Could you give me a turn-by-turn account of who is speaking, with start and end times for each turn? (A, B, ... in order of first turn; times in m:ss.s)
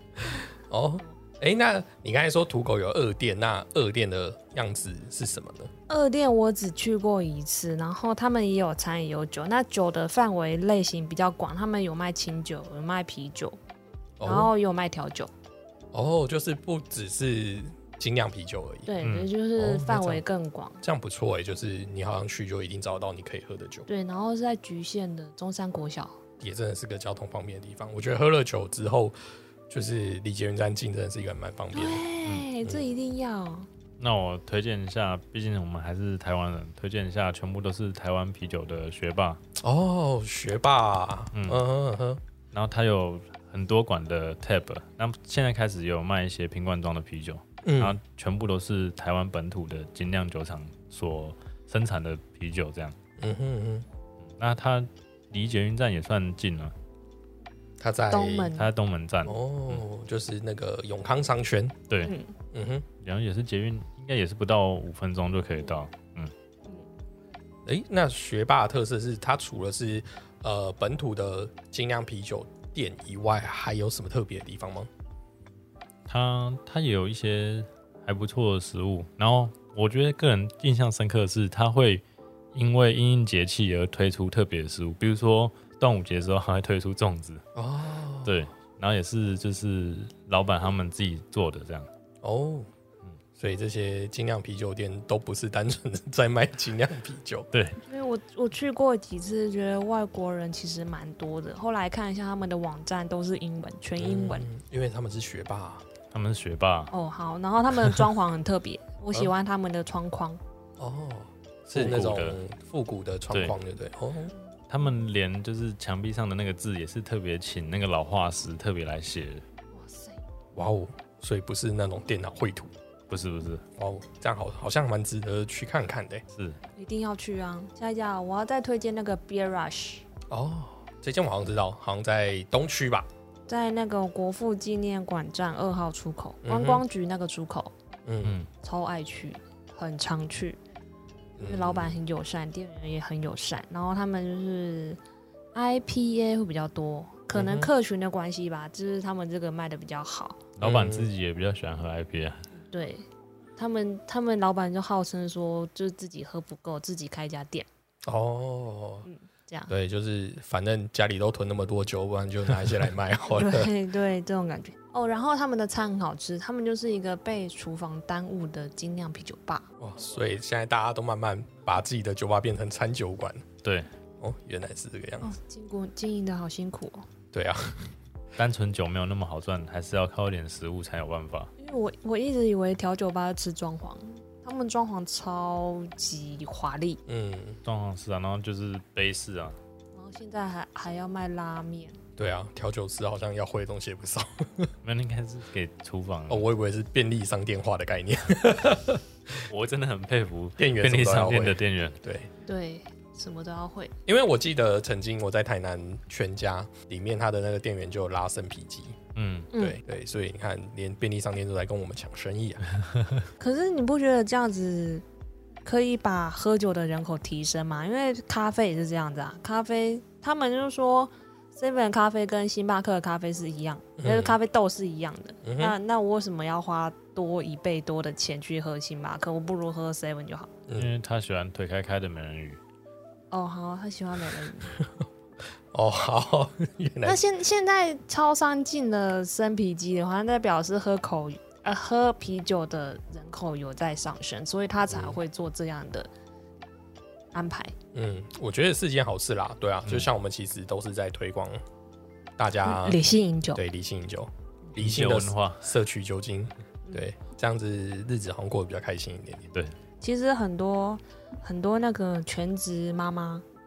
0:00.2-0:05.7 A
0:05.9-0:13.6 B
0:14.2-0:14.5 A
0:14.2-0:15.3 B
0:15.9-0:18.9 A
0:18.9-0:20.8 B
0:19.0-0:19.3 C
0:19.6-0:20.2 A
0:20.8-0:23.9 A
0:23.9-0:26.2 B
0:26.4-0:29.2 A
0:29.7-0:32.0 A
0:31.7-0:33.7 B
0:34.0-0:39.4 C
0:39.6-0:42.2 A
0:41.3-0:41.6 C
0:42.5-0:53.0 C
0:47.6-0:48.0 A
0:53.2-0:53.9 A
0:54.3-0:56.7 C
0:57.8-0:58.5 A
0:58.1-0:58.7 B
0:58.5-0:59.8 C
0:59.2-1:01.8 A
1:01.9-1:02.1 C
1:02.0-1:02.3 B
1:02.5-1:02.9 A
1:03.0-1:06.3 C
1:07.6-1:14.9 A
1:16.1-1:22.0 C
1:22.5-1:27.4 C
1:27.6-1:28.4 A
1:28.2-1:31.9 C
1:32.2-1:32.7 A
1:33.4-1:37.5 A
1:37.5-1:37.8 C
1:37.8-1:44.5 B
1:44.0-1:45.9 A
1:46.1-1:46.9 C
1:46.9-1:50.4 B
1:50.8-1:54.3 A
1:51.7-1:52.4 C
1:53.3-1:53.6 C
1:54.7-1:59.4 C
1:59.7-2:00.2 B
2:00.6-2:02.7 A
2:03.1-2:03.6 C
2:03.8-2:06.2 A
2:06.8-2:10.0 B
2:10.3-2:13.1 A
2:13.5-2:17.7 B
2:16.4-2:16.8 A
2:18.0-2:18.4 A
2:18.2-2:18.5 C
2:18.6-2:20.6 B
2:21.4-2:22.0 A
2:21.4-2:25.0 B
2:25.5-2:30.4 B
2:27.3-2:27.7 A
2:30.6-2:32.5 C
2:30.6-2:31.1 A
2:32.7-2:33.1 B
2:33.6-2:37.7 B
2:38.0-2:39.1 A
2:39.0-2:39.7 B
2:39.7-2:43.7 A
2:43.3-2:49.7 B
2:49.8-2:53.4 A
2:54.2-2:55.3 A
2:55.2-2:57.1 B
2:57.3-2:57.9 A
2:58.4-3:01.5 C
3:01.6-3:07.0 B
3:07.1-3:07.6 A
3:07.6-3:09.6 C
3:10.0-3:12.0 B
3:12.2-3:14.7 A
3:14.8-3:16.4 C
3:16.3-3:19.5 A
3:19.5-3:22.0 C
3:20.6-3:22.3 A
3:22.4-3:23.9 B
3:24.1-3:29.0 A
3:29.2-3:29.5 C
3:29.5-3:29.8 B
3:29.6-3:32.6 A
3:33.4-3:35.0 B
3:35.6-3:50.5 B
3:44.0-3:44.4 A
3:45.4-3:45.8 A
3:50.8-3:52.6 C
3:53.3-3:54.7 B
3:54.8-3:55.0 A
3:55.7-3:57.2 A
3:57.0-4:06.1 B
4:04.9-4:05.2 A
4:07.3-4:07.7 B
4:07.9-4:11.6 A
4:12.4-4:13.0 A
4:12.6-4:13.6 B
4:13.6-4:19.5 A
4:14.8-4:15.7 C
4:20.0-4:23.4 B